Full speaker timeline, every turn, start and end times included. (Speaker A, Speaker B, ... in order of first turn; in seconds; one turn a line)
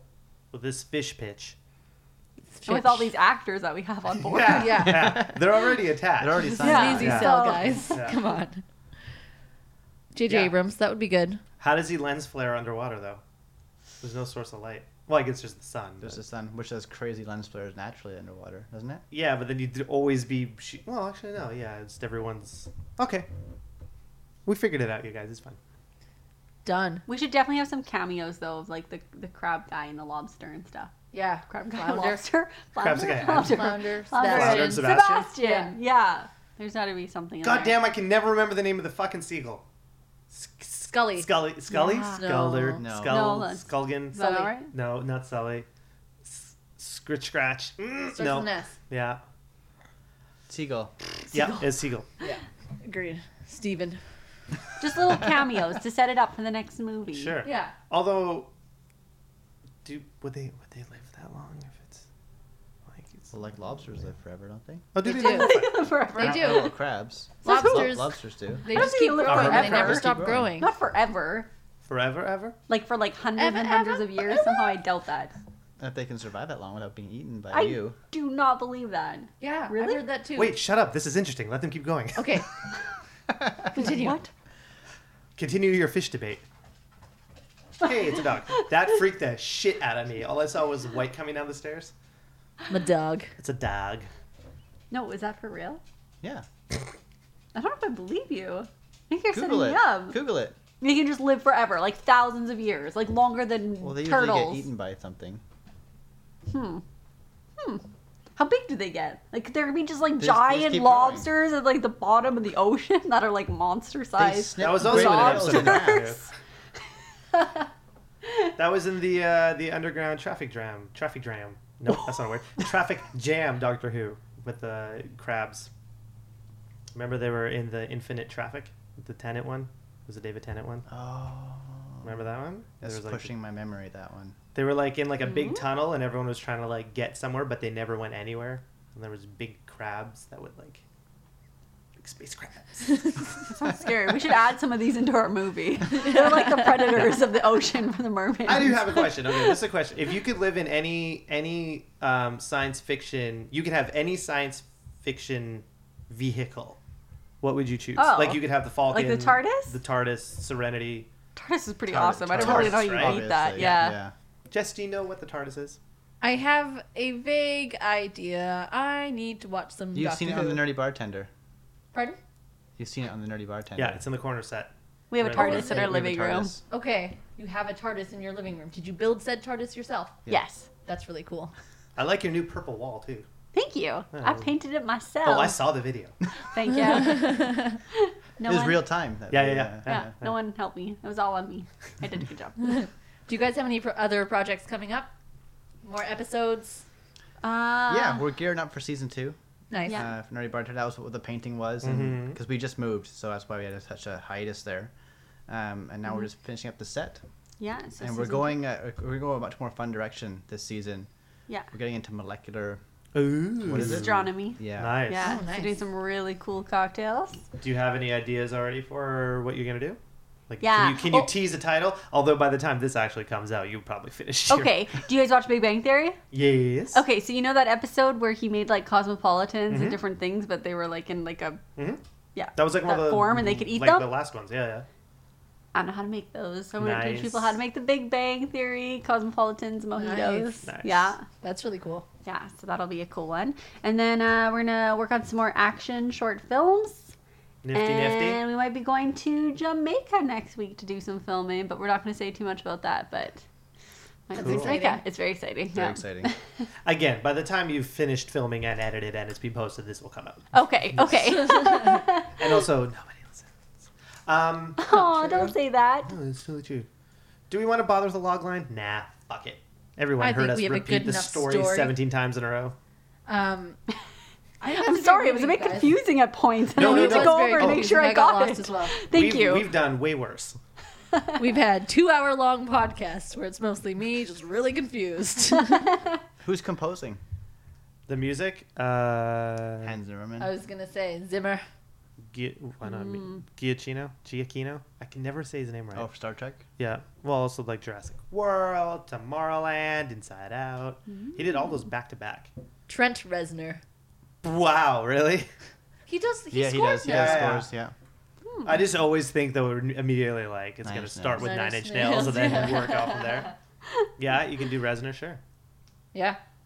Speaker A: 0.5-1.6
Speaker B: 2.5-3.1
Speaker C: 2.6-4.9
Speaker A: 4.2-7.3
Speaker B: 4.5-5.2
Speaker D: 4.9-7.5
Speaker B: 6.4-8.6
Speaker C: 6.6-7.9
Speaker A: 7.9-8.2
Speaker B: 10.2-11.4
Speaker A: 10.3-10.5
Speaker A: 11.6-13.2
Speaker A: 14.0-16.2
Speaker D: 16.0-19.0
Speaker A: 19.1-23.3
Speaker A: 24.4-25.6
Speaker B: 26.6-27.1
Speaker C: 27.1-30.9
Speaker B: 31.1-32.2
Speaker C: 31.5-37.8
Speaker A: 32.8-33.6
Speaker B: 33.1-35.8
Speaker A: 34.2-35.3
Speaker A: 37.4-39.6
Speaker A: 40.3-45.7
Speaker B: 40.9-42.9
Speaker D: 42.8-43.3
Speaker C: 43.1-44.7
Speaker B: 44.2-44.5
Speaker A: 46.2-49.2
Speaker B: 48.1-48.8
Speaker D: 50.5-50.9
Speaker A: 51.3-52.1
Speaker B: 52.2-54.0
Speaker C: 54.8-57.4
Speaker A: 57.1-58.5
Speaker B: 57.4-57.7
Speaker A: 59.8-62.0
Speaker A: 62.9-63.3
Speaker D: 63.3-64.9
Speaker A: 64.9-65.7
Speaker B: 65.0-65.6
Speaker C: 65.0-66.8
Speaker D: 66.1-70.5
Speaker B: 66.2-66.7
Speaker C: 67.4-68.0
Speaker B: 67.4-70.7
Speaker C: 68.6-71.5
Speaker A: 69.2-70.0
Speaker A: 71.9-72.6
Speaker C: 72.7-75.3
Speaker B: 73.4-74.4
Speaker D: 75.8-78.0
Speaker C: 77.5-80.0
Speaker B: 79.4-80.6
Speaker A: 80.3-82.4
Speaker B: 82.2-82.5
Speaker B: 83.7-84.2
Speaker C: 83.8-84.3
Speaker A: 85.4-86.5
Speaker A: 87.8-91.9
Speaker B: 92.7-93.3
Speaker A: 93.4-94.1
Speaker C: 94.9-95.8
Speaker C: 97.5-100.2
Speaker D: 99.3-100.6
Speaker C: 100.8-104.7
Speaker D: 103.8-105.4
Speaker C: 106.5-106.8
Speaker C: 107.6-107.8
Speaker C: 108.4-116.3
Speaker D: 110.2-111.3
Speaker D: 114.2-116.2
Speaker A: 114.6-116.2
Speaker C: 117.3-117.7
Speaker A: 118.6-125.7
Speaker A: 126.9-130.8
Speaker D: 130.9-132.2
Speaker A: 132.0-133.3
Speaker D: 132.8-134.4
Speaker A: 134.6-140.8
Speaker C: 135.2-135.7
Speaker A: 142.0-143.6
Speaker C: 143.5-149.6
Speaker B: 145.9-146.8
Speaker A: 148.4-156.8
Speaker A: 157.4-161.1
Speaker C: 158.0-159.8
Speaker C: 161.4-164.0
Speaker D: 161.9-164.1
Speaker A: 162.3-163.9
Speaker A: 164.5-165.8
Speaker B: 166.2-170.7
Speaker D: 169.9-171.3
Speaker D: 172.8-174.0
Speaker A: 173.8-175.8
Speaker C: 175.1-176.5
Speaker D: 175.4-176.6
Speaker B: 176.7-180.2
Speaker C: 180.3-180.7
Speaker B: 180.8-181.5
Speaker A: 182.0-183.3
Speaker C: 183.5-185.7
Speaker A: 184.1-184.5
Speaker A: 185.2-186.2
Speaker C: 186.4-188.9
Speaker B: 186.9-187.7
Speaker D: 188.4-190.1
Speaker A: 189.3-190.4
Speaker C: 189.9-192.9
Speaker B: 192.7-195.1
Speaker B: 195.8-196.8
Speaker C: 197.4-198.2
Speaker D: 197.9-199.4
Speaker B: 199.7-200.0
Speaker C: 199.9-200.1
Speaker D: 199.9-204.9
Speaker A: 201.8-202.4
Speaker D: 205.5-207.2
Speaker C: 207.6-208.5
Speaker D: 208.0-211.1
Speaker D: 211.7-212.8
Speaker A: 213.2-215.4
Speaker D: 213.6-215.0
Speaker C: 213.7-217.4
Speaker B: 215.2-215.8
Speaker A: 217.6-224.8
Speaker C: 220.6-221.3
Speaker C: 224.5-226.2
Speaker A: 226.3-227.0
Speaker C: 226.9-231.6
Speaker A: 229.7-230.0
Speaker C: 232.3-234.1
Speaker A: 232.6-234.9
Speaker C: 235.7-241.2
Speaker A: 236.8-237.6
Speaker B: 240.0-240.7
Speaker A: 240.7-241.1
Speaker B: 241.4-242.1
Speaker C: 242.2-247.1
Speaker A: 247.6-248.4
Speaker C: 247.7-253.4
Speaker C: 254.3-256.7
Speaker B: 254.4-255.0
Speaker A: 254.4-254.8
Speaker D: 255.7-256.3
Speaker A: 256.8-263.5
Speaker C: 260.5-262.6
Speaker A: 264.3-265.5
Speaker C: 264.8-266.1
Speaker B: 264.9-265.5
Speaker A: 266.1-266.9
Speaker A: 267.5-272.8
Speaker B: 270.2-271.9
Speaker B: 273.3-273.8
Speaker B: 274.6-276.0
Speaker C: 274.6-279.7
Speaker A: 276.8-277.9
Speaker B: 276.8-279.0
Speaker A: 279.1-280.6
Speaker B: 281.4-285.9
Speaker C: 285.6-286.2
Speaker D: 286.4-287.2
Speaker A: 288.1-289.9
Speaker D: 289.8-290.5
Speaker B: 290.4-291.6
Speaker A: 292.3-296.1
Speaker C: 292.8-293.4
Speaker D: 295.9-296.7
Speaker A: 296.8-302.5
Speaker B: 302.9-303.8
Speaker A: 304.4-305.5
Speaker B: 306.1-307.6
Speaker D: 306.5-307.9
Speaker A: 307.0-307.7
Speaker C: 308.5-308.9
Speaker A: 308.6-313.6
Speaker D: 310.8-311.6
Speaker B: 311.4-313.5
Speaker A: 314.2-315.4
Speaker B: 316.1-316.4